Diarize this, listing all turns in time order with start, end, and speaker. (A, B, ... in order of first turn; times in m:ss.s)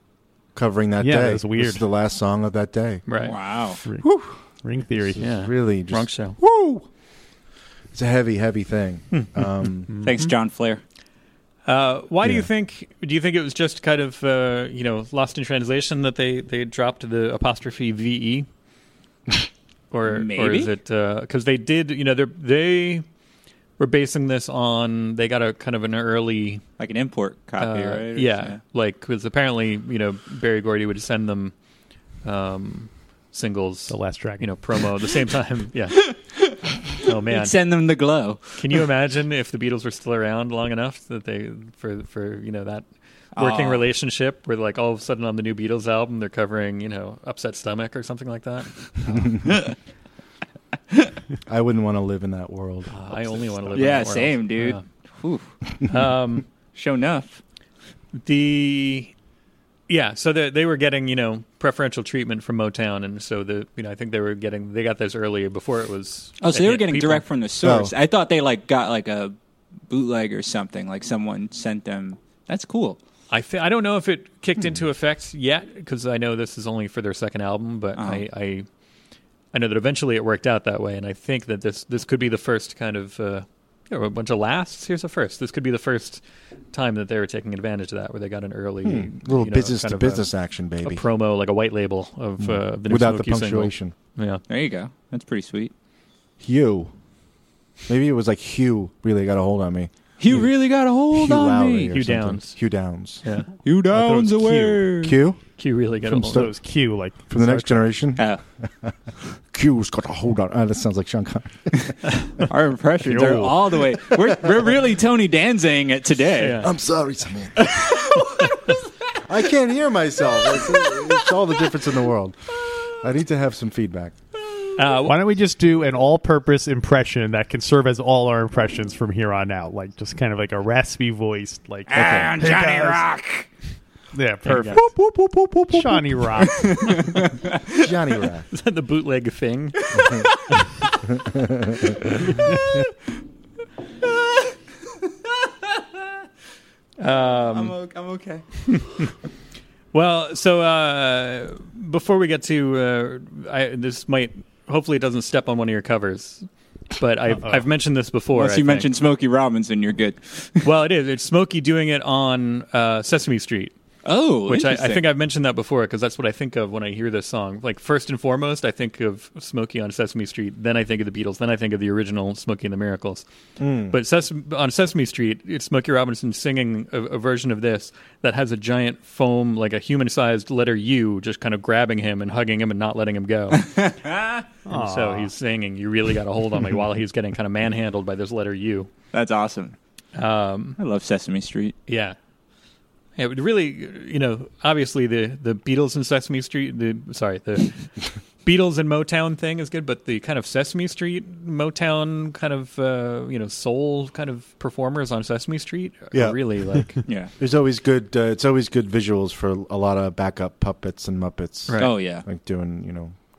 0:00.5-0:03.0 A
0:01.0-0:01.8 B
0:03.1-0:03.3 C
0:03.2-0:03.8 D
0:03.8-0:05.3 B
0:05.0-0:06.8 A
0:05.2-0:06.4 C
0:07.9-0:09.9 A
0:09.9-0:10.2 B
0:10.0-0:10.8 D
0:11.6-0:18.5 C
0:19.9-0:23.0 C
0:20.1-0:20.7 D
0:23.8-0:26.6 C
0:26.8-0:28.6 D
0:27.6-0:31.5 C
0:32.2-0:36.0 C
0:33.9-0:34.5 B
0:36.0-0:38.6 D
0:37.0-0:37.5 C
0:38.6-0:49.3 C
0:43.4-0:43.8 D
0:51.4-0:53.8 A
0:52.9-0:54.8 C
0:53.7-0:55.5 D
0:55.8-0:56.4 C
0:56.7-0:57.4 D
0:58.1-0:59.1 C
0:59.9-1:07.2 C
1:06.4-1:09.3 D
1:07.6-1:07.9 A
1:09.9-1:13.0 D
1:13.3-1:18.7 C
1:18.0-1:18.2 D
1:19.5-1:30.3 C
1:28.8-1:31.0 A
1:30.8-1:34.4 C
1:32.4-1:33.9 A
1:34.5-1:35.7 D
1:36.4-1:36.9 A
1:37.9-1:39.9 A
1:40.2-1:41.9 D
1:41.1-1:43.2 A
1:41.9-1:42.6 C
1:43.2-1:43.5 C
1:43.6-1:45.2 D
1:43.9-1:44.8 B
1:45.0-1:45.4 A
1:45.6-1:46.5 C
1:46.1-1:47.9 B
1:47.3-1:48.9 A
1:48.2-1:48.4 D
1:49.5-1:52.5 A
1:52.4-1:56.6 D
1:53.0-1:53.5 B
1:56.4-1:56.7 C
1:56.6-1:57.9 A
1:57.6-1:58.8 D
1:59.2-2:04.1 A
2:00.5-2:01.3 D
2:04.8-2:05.2 C
2:05.0-2:13.1 B
2:11.9-2:13.5 D
2:11.9-2:12.4 A
2:14.1-2:14.9 B
2:14.4-2:14.8 C
2:15.0-2:16.5 A
2:15.7-2:17.0 B
2:16.5-2:17.9 D
2:17.7-2:18.5 A
2:18.5-2:19.8 C
2:19.9-2:20.9 D
2:21.3-2:21.9 A
2:22.3-2:22.8 D
2:24.0-2:24.5 D
2:25.2-2:26.0 D
2:27.0-2:27.7 C
2:27.0-2:28.4 D
2:28.7-2:29.0 C
2:29.9-2:38.9 C
2:37.4-2:37.6 B
2:38.3-2:40.6 D
2:40.6-2:43.7 C
2:44.0-2:45.0 D
2:44.5-2:53.2 C
2:53.6-2:54.0 A
2:53.9-3:03.6 C
3:03.6-3:04.4 D
3:04.6-3:05.3 B
3:04.7-3:08.9 C
3:09.1-3:09.7 D
3:10.1-3:10.8 C
3:10.8-3:11.7 D
3:11.9-3:12.2 C
3:13.2-3:17.9 C
3:18.4-3:27.0 C
3:26.1-3:33.1 A
3:27.0-3:27.3 D
3:31.7-3:31.9 C
3:31.8-3:32.2 D